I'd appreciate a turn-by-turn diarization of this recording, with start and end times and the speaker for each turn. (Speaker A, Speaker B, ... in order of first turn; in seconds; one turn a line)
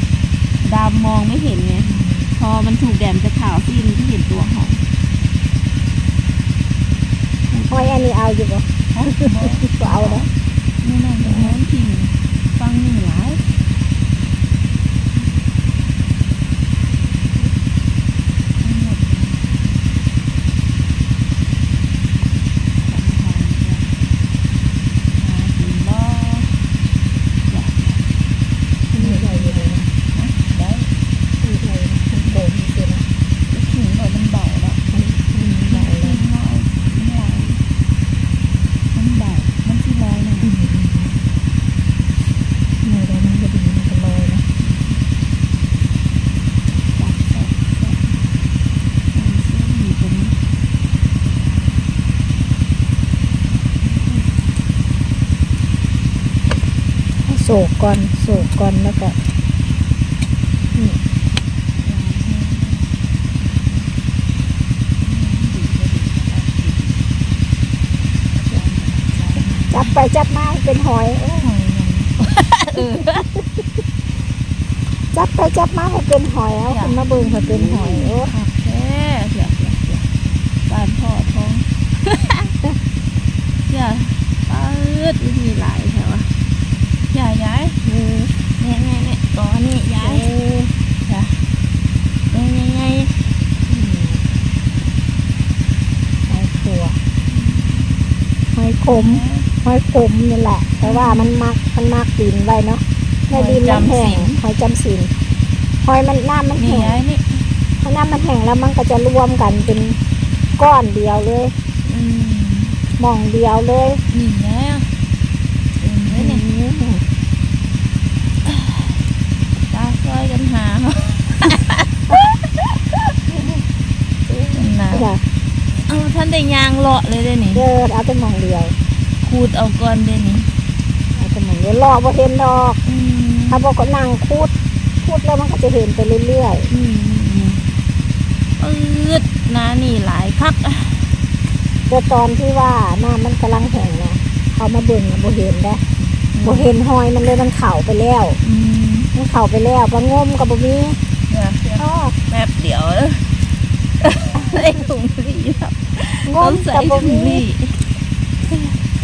Speaker A: 0.6-4.8
Speaker B: 1.7-2.3
Speaker A: 7.5-8.0
Speaker B: 7.7-10.3
Speaker A: 8.9-10.3
Speaker A: 10.8-13.4
Speaker B: 11.2-11.6
Speaker A: 18.6-19.8
Speaker A: 22.8-23.9
Speaker A: 25.1-26.6
Speaker A: 27.5-28.1
Speaker B: 28.9-29.9
Speaker A: 29.0-30.9
Speaker B: 31.4-33.0
Speaker A: 33.5-34.8
Speaker B: 34.9-36.2
Speaker A: 35.7-37.6
Speaker A: 38.9-40.5
Speaker B: 40.4-41.2
Speaker B: 42.8-44.4
Speaker A: 44.6-45.0
Speaker A: 46.9-48.2
Speaker A: 49.1-50.4
Speaker A: 53.8-54.4
Speaker B: 57.2-59.2
Speaker B: 60.7-61.0
Speaker A: 61.8-62.9
Speaker A: 65.0-67.0
Speaker A: 68.5-69.9
Speaker B: 69.7-71.5
Speaker A: 71.4-73.3
Speaker B: 75.1-78.3
Speaker A: 76.7-80.1
Speaker A: 80.7-82.5
Speaker A: 83.6-86.3
Speaker A: 87.1-87.8
Speaker B: 87.8-88.3
Speaker A: 88.4-90.3
Speaker B: 90.0-90.7
Speaker A: 91.0-91.5
Speaker A: 92.3-93.3
Speaker B: 93.7-94.2
Speaker B: 96.3-97.0
Speaker A: 97.3-98.0
Speaker B: 98.5-105.1
Speaker A: 98.9-99.5
Speaker A: 100.8-101.3
Speaker A: 103.3-104.4
Speaker B: 105.8-107.0
Speaker A: 106.6-107.5
Speaker B: 107.8-110.0
Speaker B: 110.6-111.5
Speaker A: 111.8-112.8
Speaker B: 113.0-114.0
Speaker A: 114.1-114.9
Speaker A: 115.8-116.4
Speaker B: 116.1-117.0
Speaker A: 119.7-122.3
Speaker B: 124.3-125.2
Speaker A: 124.5-125.1
Speaker A: 125.8-127.6
Speaker B: 127.5-128.7
Speaker A: 129.2-130.5
Speaker B: 131.1-132.8
Speaker A: 132.8-133.6
Speaker B: 133.5-134.5
Speaker B: 135.0-136.7
Speaker A: 136.7-137.7
Speaker A: 138.6-141.2
Speaker B: 141.9-145.8
Speaker A: 146.3-146.7
Speaker B: 146.4-148.4
Speaker A: 148.4-149.1
Speaker B: 149.1-151.0
Speaker A: 151.3-153.4
Speaker B: 151.8-152.1
Speaker A: 154.0-157.8
Speaker B: 156.2-157.4